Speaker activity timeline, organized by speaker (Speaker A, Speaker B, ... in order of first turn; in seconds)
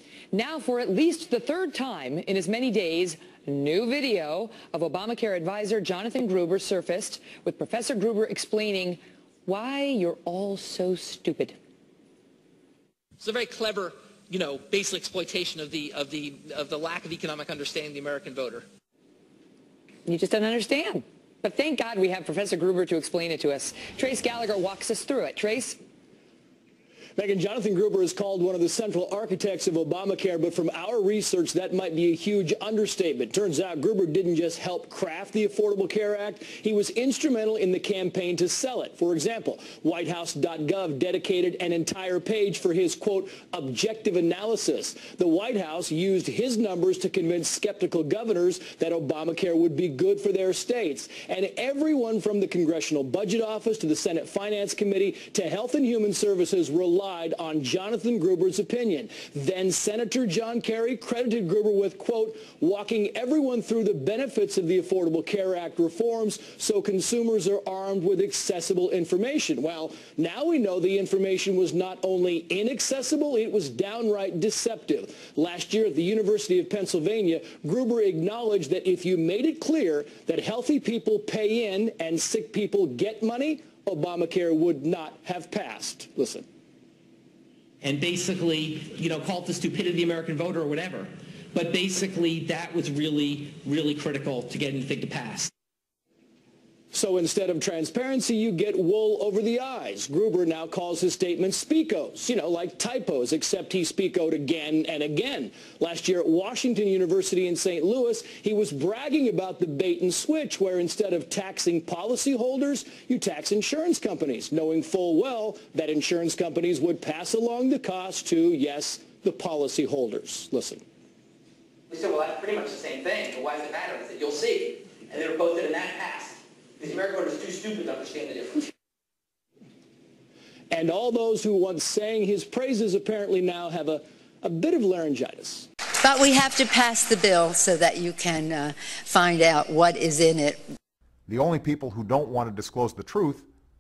Speaker A: 0.3-11.6, 20.1-25.8
Speaker B: 13.2-18.6, 87.8-95.5, 121.9-128.7
Speaker C: 27.2-86.5, 96.9-120.8, 130.7-135.7
Speaker D: 136.0-140.7
Speaker E: 141.3-143.5